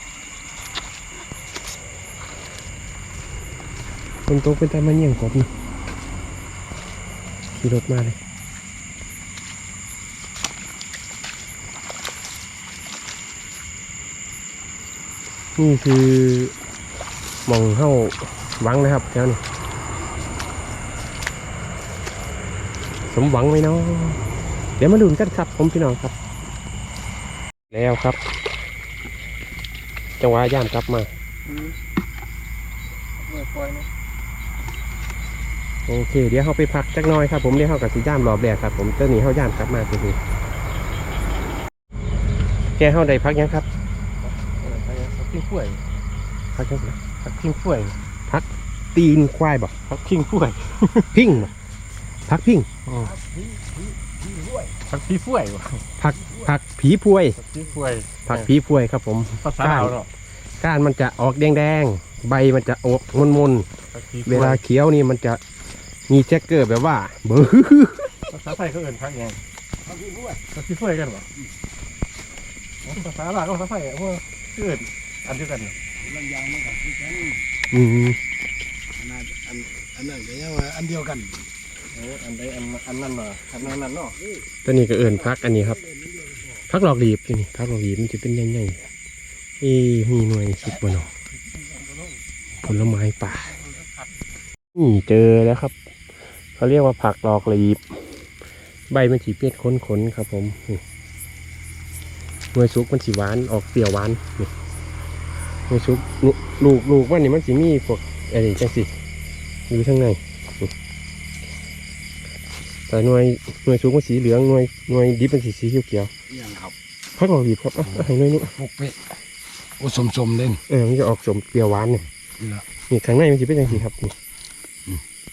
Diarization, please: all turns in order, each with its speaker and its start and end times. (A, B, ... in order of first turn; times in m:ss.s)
0:04.3-0:05.5 A
0:07.5-0:08.2 A
0:15.6-0:16.5 A
0:17.4-0:19.4 A
0:23.1-0:24.2 A
0:24.8-0:26.1 A
0:27.7-0:28.2 A
0:30.2-0:31.1 A
0:31.5-0:31.7 B
0:33.2-0:33.9 B
0:35.9-0:40.2 A
0:42.8-0:43.6 A
0:44.2-0:45.8 B
0:46.5-0:47.0 A
0:47.2-0:48.0 B
0:48.3-0:49.7 A
0:49.9-0:51.3 B
0:51.1-0:51.5 A
0:52.3-0:52.7 A
0:52.8-0:53.1 B
0:53.0-0:54.7 C
0:54.9-0:55.8 B
0:56.0-0:57.4 A
0:56.2-0:56.5 C
0:57.4-0:58.5 B
0:58.2-1:00.0 A
0:59.4-1:00.1 B
1:00.6-1:03.7 A
1:03.9-1:04.6 B
1:04.2-1:05.4 A
1:06.1-1:08.1 A
1:08.3-1:09.4 B
1:09.8-1:10.4 C
1:10.5-1:11.3 B
1:12.8-1:15.8 B
1:16.0-1:17.5 C
1:17.7-1:18.2 A
1:19.0-1:21.5 C
1:21.9-1:24.2 B
1:24.6-1:25.8 A
1:25.3-1:26.5 C
1:26.7-1:28.8 A
1:29.6-1:31.1 A
1:32.6-1:33.6 A
1:34.7-1:35.7 A
1:36.6-1:38.0 A
1:38.9-1:40.8 A
1:42.5-1:44.5 A
1:45.7-1:48.9 A
1:49.7-1:50.7 A
1:52.9-1:56.1 A
1:56.3-1:56.7 C
1:57.2-1:58.5 A
1:57.8-1:59.0 C
1:59.8-2:00.6 C
2:00.7-2:02.0 A
2:02.4-2:02.6 C
2:02.9-2:04.1 A